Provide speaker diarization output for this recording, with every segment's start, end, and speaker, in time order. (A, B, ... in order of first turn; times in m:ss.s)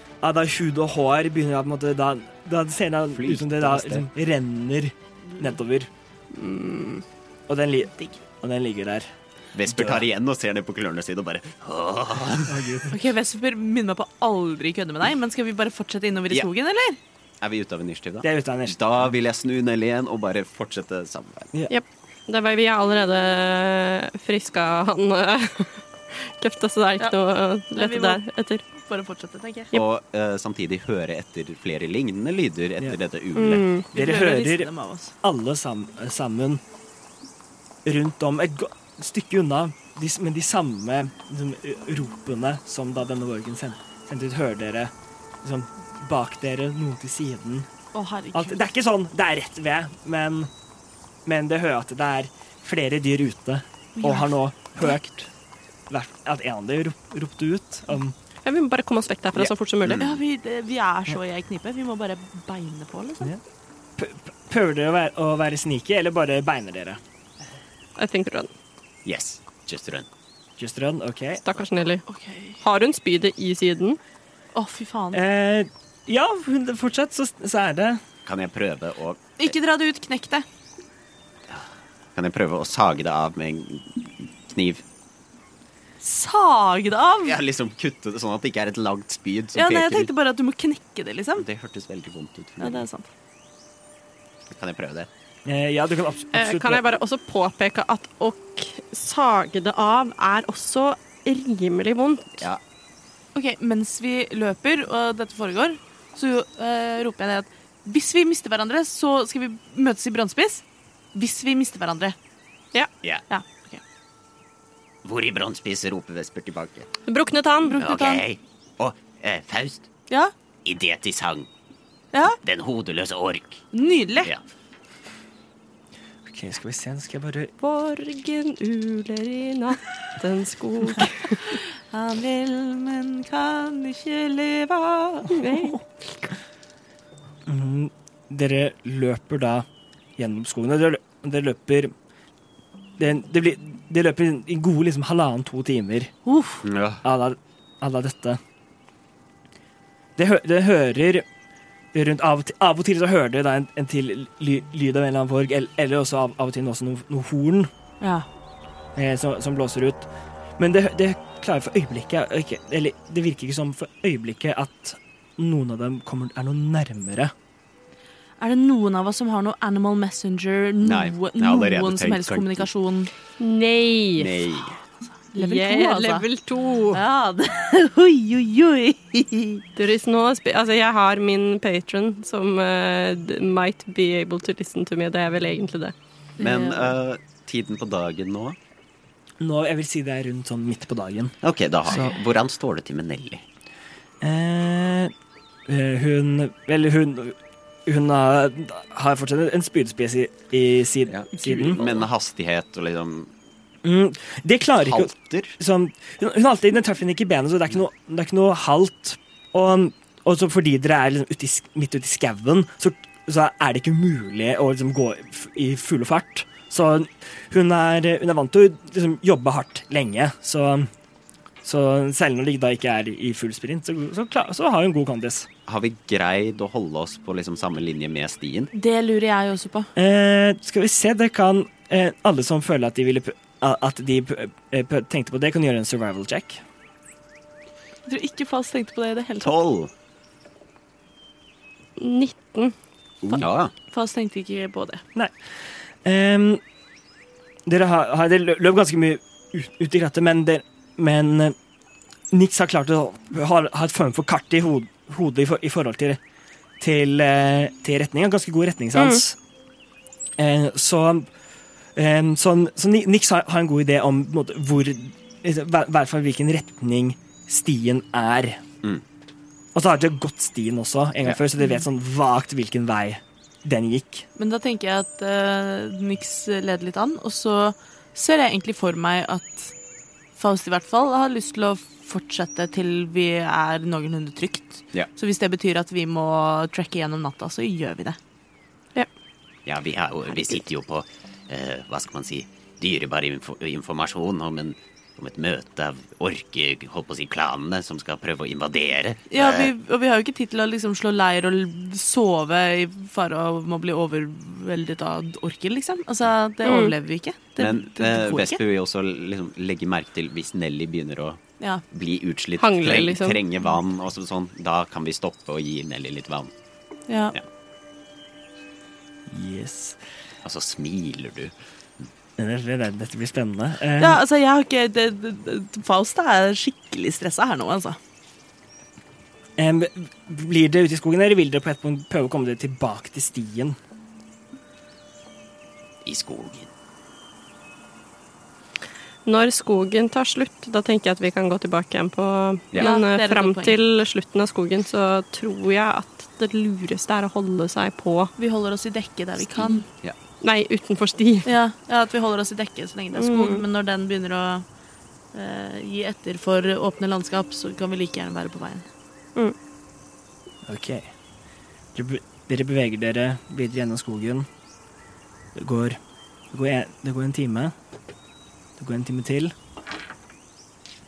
0:00.2-0:05.9 A
0:03.1-0:04.1 B
0:06.3-0:07.0 C
0:07.5-0:09.1 A
0:09.5-0:12.6 B
0:09.6-0:10.0 A
0:12.4-0:13.0 A
0:12.9-0:17.0 D
0:17.4-0:21.5 B
0:18.2-0:18.8 A
0:21.7-0:28.6 C
0:27.8-0:29.7 D
0:29.7-0:33.6 B
0:33.3-0:33.9 C
0:33.9-0:35.1 D
0:33.9-0:34.7 A
0:35.2-0:36.6 A
0:37.8-0:44.9 A
0:45.4-0:47.7 A
0:47.9-0:48.7 D
0:48.3-0:50.5 A
0:51.2-0:55.3 A
0:54.0-0:54.9 D
0:55.9-0:58.1 A
0:58.4-1:00.0 C
0:59.3-1:00.2 B
0:59.9-1:03.3 D
1:04.0-1:07.0 A
1:08.0-1:08.5 C
1:09.0-1:10.1 B
1:10.6-1:11.4 A
1:11.4-1:12.0 C
1:12.1-1:12.6 D
1:12.6-1:14.0 C
1:14.5-1:15.2 D
1:15.1-1:18.0 A
1:18.2-1:19.3 B
1:19.4-1:20.4 D
1:21.5-1:24.8 B
1:26.0-1:27.4 D
1:27.2-1:30.1 B
1:29.5-1:31.5 D
1:31.4-1:32.8 B
1:32.6-1:33.1 D
1:34.5-1:35.1 B
1:35.4-1:36.8 A
1:36.3-1:42.4 C
1:43.3-1:52.1 D
1:53.3-1:53.8 D
1:55.0-1:56.9 B
1:57.1-1:57.8 C
1:57.6-1:58.2 D
1:57.8-1:59.9 B
2:00.6-2:01.5 B
2:02.1-2:02.4 D
2:02.4-2:03.6 B
2:03.7-2:04.3 D
2:06.2-2:07.5 A
2:07.6-2:11.5 C
2:11.5-2:15.5 D
2:15.3-2:15.8 C
2:17.4-2:19.6 A
2:20.2-2:21.9 A
2:23.0-2:26.1 A
2:26.2-2:26.6 D
2:26.6-2:27.0 B
2:27.0-2:28.4 A
2:30.2-2:31.2 A
2:31.9-2:37.7 A
2:38.0-2:38.2 D
2:38.9-2:47.3 A
2:48.4-2:53.1 D
2:50.8-2:52.7 B
2:53.4-2:54.4 C
2:54.2-2:54.8 B
2:55.3-2:56.3 D
2:55.4-2:57.0 C
2:56.9-2:59.6 D
2:59.8-3:05.9 C
3:06.4-3:06.9 D
3:06.4-3:08.6 B
3:09.4-3:11.3 A
3:11.4-3:13.4 B
3:11.9-3:12.1 A
3:14.2-3:15.1 A
3:15.7-3:21.8 A
3:21.1-3:23.3 B
3:23.8-3:40.9 A
3:24.8-3:25.6 B
3:41.6-3:45.5 A
3:45.7-3:48.7 B
3:48.7-3:49.9 D
3:50.0-3:56.6 A
3:58.1-3:59.5 D
3:59.4-3:59.9 B
4:02.0-4:02.7 C
4:03.3-4:05.0 D
4:03.4-4:03.7 B
4:06.0-4:06.6 A
4:07.6-4:11.6 A
4:12.3-4:16.2 A
4:16.8-4:19.4 A
4:18.9-4:19.2 C
4:20.4-4:21.3 A
4:22.0-4:28.6 A
4:29.7-4:34.2 A
4:34.4-4:39.7 D
4:40.4-4:48.2 D
4:49.6-4:59.7 B
4:59.3-5:08.6 D
5:06.6-5:06.9 C
5:07.6-5:16.5 B
5:12.6-5:13.4 C
5:17.1-5:17.4 D
5:19.3-5:20.0 A
5:20.4-5:22.0 B
5:22.4-5:24.2 A
5:24.0-5:28.0 D
5:29.6-5:33.8 A
5:36.0-5:36.7 B
5:39.2-5:48.3 C
5:42.8-5:43.8 D
5:48.4-5:49.8 D
5:49.5-5:50.2 B
5:50.4-5:51.5 C
5:51.4-5:54.6 D
5:53.1-5:53.6 C
5:55.3-5:58.8 D
6:00.6-6:01.1 A
6:01.9-6:04.5 A
6:05.5-6:06.0 A
6:06.5-6:07.7 A
6:08.8-6:09.5 A